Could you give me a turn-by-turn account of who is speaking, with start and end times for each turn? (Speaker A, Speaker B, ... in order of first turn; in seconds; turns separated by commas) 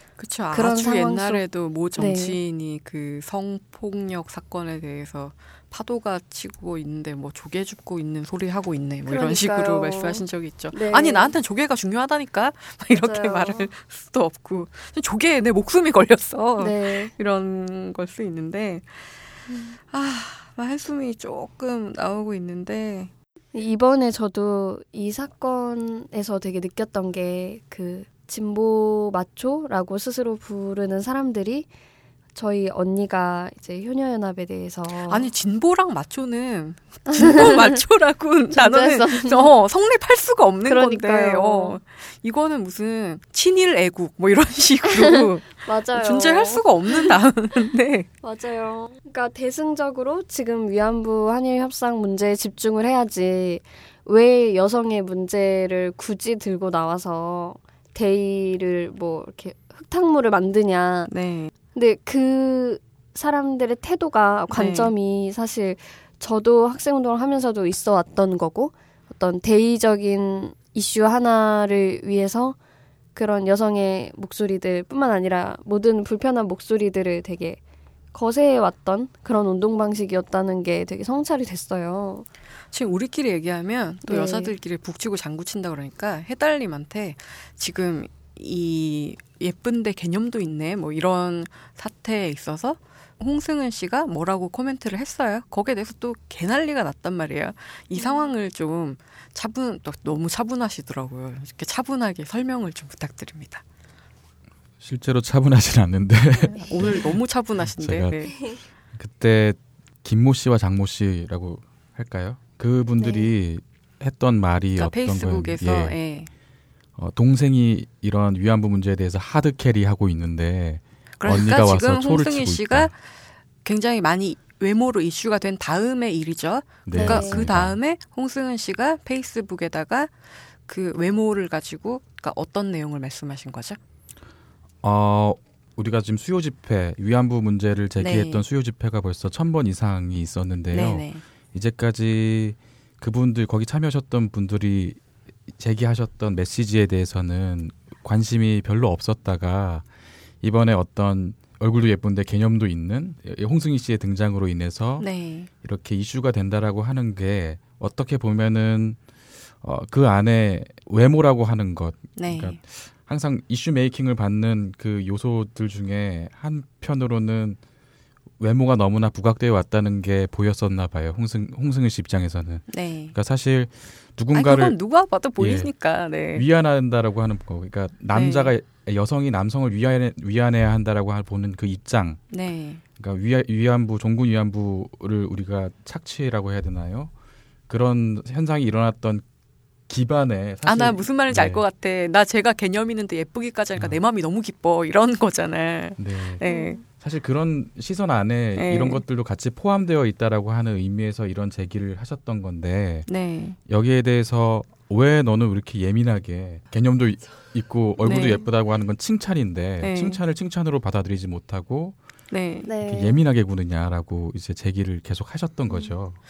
Speaker A: 0.2-19.2, Speaker B: 0.5-1.4, Speaker B: 1.9-2.4, Speaker B: 9.1-11.3, Speaker B: 12.9-13.7, Speaker B: 16.6-17.1, Speaker B: 19.5-19.8, Speaker A: 19.9-23.1, Speaker B: 23.5-31.7, Speaker B: 32.3-35.3, Speaker A: 35.1-48.1, Speaker B: 37.1-37.8, Speaker B: 38.5-39.5, Speaker B: 40.7-41.8, Speaker B: 44.9-47.1, Speaker B: 48.2-61.1, Speaker A: 61.1-61.5, Speaker B: 61.7-72.6, Speaker A: 64.5-64.9, Speaker B: 73.1-77.6, Speaker B: 78.1-82.3, Speaker A: 82.7-103.6, Speaker B: 84.0-84.5, Speaker B: 98.0-98.3, Speaker C: 104.8-108.1, Speaker A: 106.6-108.4, Speaker C: 108.9-116.0, Speaker B: 113.0-113.3, Speaker A: 114.8-116.3, Speaker C: 117.0-122.9, Speaker A: 121.2-123.1, Speaker A: 123.6-130.1, Speaker C: 126.8-127.8, Speaker B: 126.9-127.5, Speaker A: 130.7-133.8, Speaker C: 134.8-145.0, Speaker A: 138.0-138.4, Speaker A: 140.7-141.2, Speaker C: 145.5-149.8, Speaker C: 150.4-155.1, Speaker A: 155.0-155.5, Speaker C: 155.6-159.0, Speaker C: 159.6-167.6, Speaker A: 162.2-162.6, Speaker C: 168.4-174.8, Speaker A: 172.7-173.1, Speaker A: 174.3-176.4, Speaker C: 175.4-175.7, Speaker C: 176.3-182.2, Speaker A: 178.1-178.5, Speaker A: 182.3-182.8, Speaker C: 183.0-187.1, Speaker C: 187.7-189.2, Speaker C: 189.9-191.6, Speaker A: 190.7-196.8, Speaker C: 196.0-196.4, Speaker B: 196.4-196.8, Speaker C: 196.9-203.1, Speaker A: 198.6-199.0, Speaker A: 203.1-203.6, Speaker C: 203.7-212.0, Speaker A: 208.0-208.4, Speaker B: 208.1-208.4, Speaker A: 209.8-210.2, Speaker A: 212.3-212.7, Speaker B: 212.6-213.2, Speaker C: 212.8-216.2